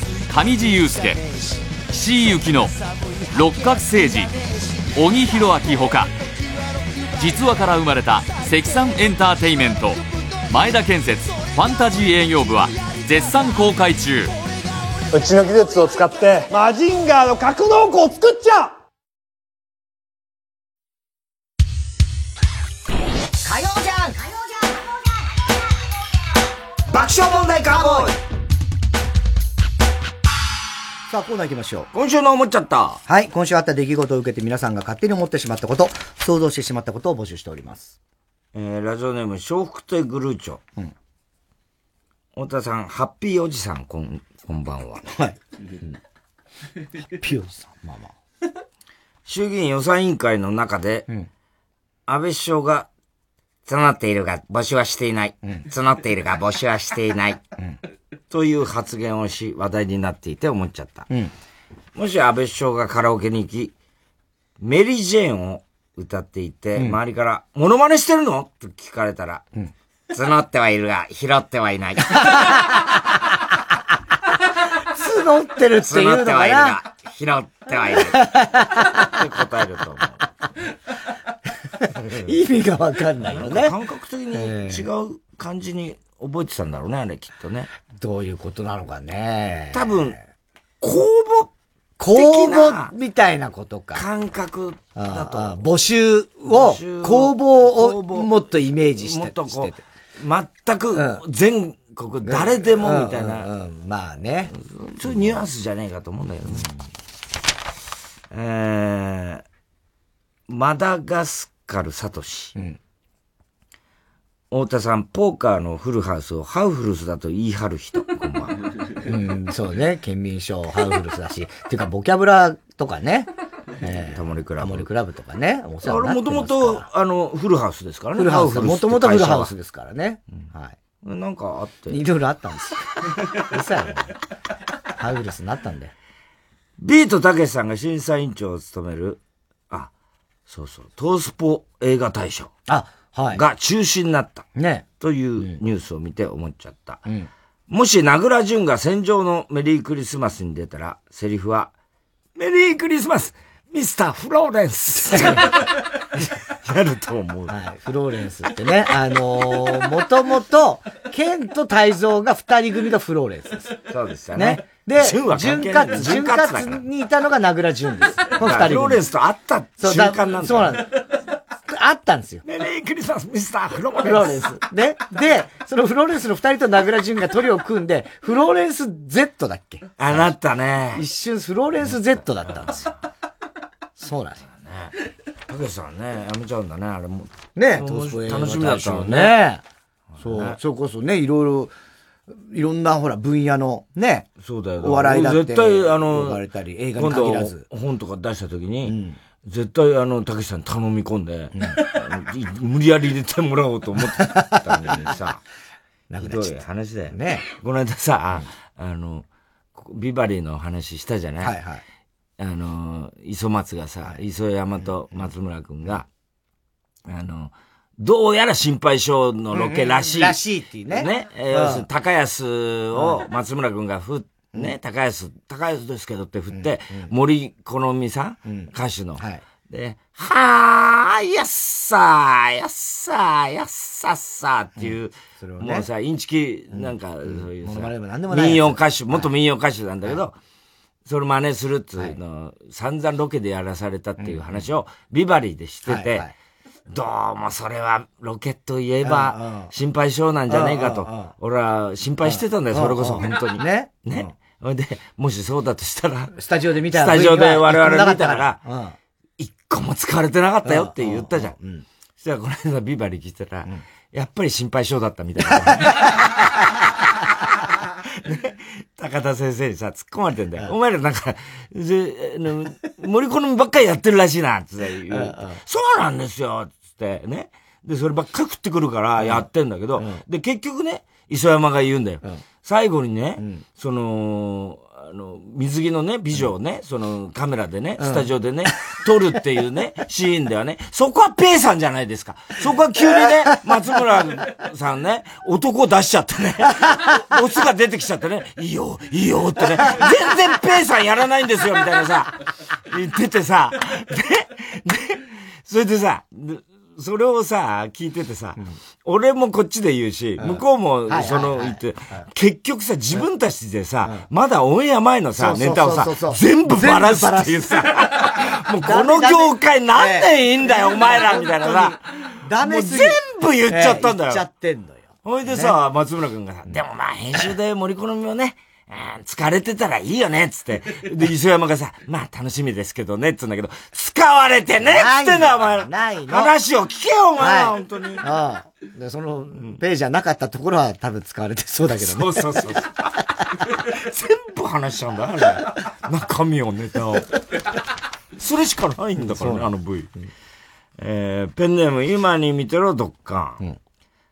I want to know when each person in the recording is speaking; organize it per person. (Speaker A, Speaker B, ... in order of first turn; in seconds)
Speaker A: 0.3-1.2, 1.9-2.8, 3.3-4.3, 5.0-6.1, 7.2-14.3
Speaker B: 15.1-18.7
Speaker C: 23.4-24.3, 26.9-28.2, 31.1-31.9, 33.1-38.0, 45.1-46.0, 47.1-48.1, 74.9-76.8, 78.1-79.0, 82.2-83.7, 84.3-84.9, 88.0-90.1, 92.0-94.0, 95.0-99.8, 101.0-101.2, 102.2-104.5, 119.0-123.3, 123.8-126.9, 128.2-130.8, 131.9-134.1, 135.0-135.9, 142.7-143.4, 144.6-144.8, 157.5-163.7, 164.3-169.0, 169.8-170.9, 171.7-172.4, 174.0-180.3, 180.9-182.9, 184.0-184.4, 187.6-189.6, 190.2-191.7, 192.3-194.3, 194.8-197.6, 198.8-199.2, 204.4-205.1, 206.1-207.4, 211.4-211.8, 219.5-221.9, 226.5-227.1, 228.5-229.4, 234.8-235.9, 236.7-239.3, 244.2-244.6, 245.9-246.3, 249.0-249.7, 250.5-251.3, 252.2-254.3, 256.4-258.9, 260.6-261.9, 265.8-266.1, 275.1-275.6, 279.2-279.4, 280.0-280.2, 283.4-283.6, 288.0-288.3, 310.4-312.2, 315.4-317.9, 318.8-325.8, 334.8-336.5, 337.4-342.7, 349.2-349.7
Speaker D: 31.9-33.0, 38.5-40.6, 42.4-45.0, 49.3-51.1, 52.1-52.9, 53.7-57.4, 58.3-61.1, 62.0-63.7, 64.6-69.5, 70.1-72.3, 75.8-78.3, 79.0-80.3, 82.0-82.3, 83.2-87.7, 89.7-90.2, 90.8-91.5, 92.1-92.9, 93.9-95.6, 96.5-98.3, 99.0-103.5, 104.5-106.7, 108.3-109.4, 110.5-112.5, 114.5-118.6, 123.9-124.9, 125.8-129.5, 131.0-132.0, 136.8-139.9, 140.5-142.5, 143.3-144.5, 145.0-147.0, 147.7-151.7, 152.4-157.6, 163.9-166.8, 168.4-170.9, 172.4-174.4, 180.0-181.1, 184.5-184.9, 185.5-189.4, 190.1-190.6, 194.4-196.4, 197.0-205.4, 206.2-211.6, 212.4-216.1, 217.1-220.4, 220.9-240.4, 241.1-246.3, 246.9-256.4, 256.9-258.6, 259.4-261.6, 262.2-266.7, 268.1-302.4, 302.9-322.0, 322.6-324.4, 325.2-338.3, 341.9-343.1, 343.8-347.3, 348.4-350.1, 351.0-353.6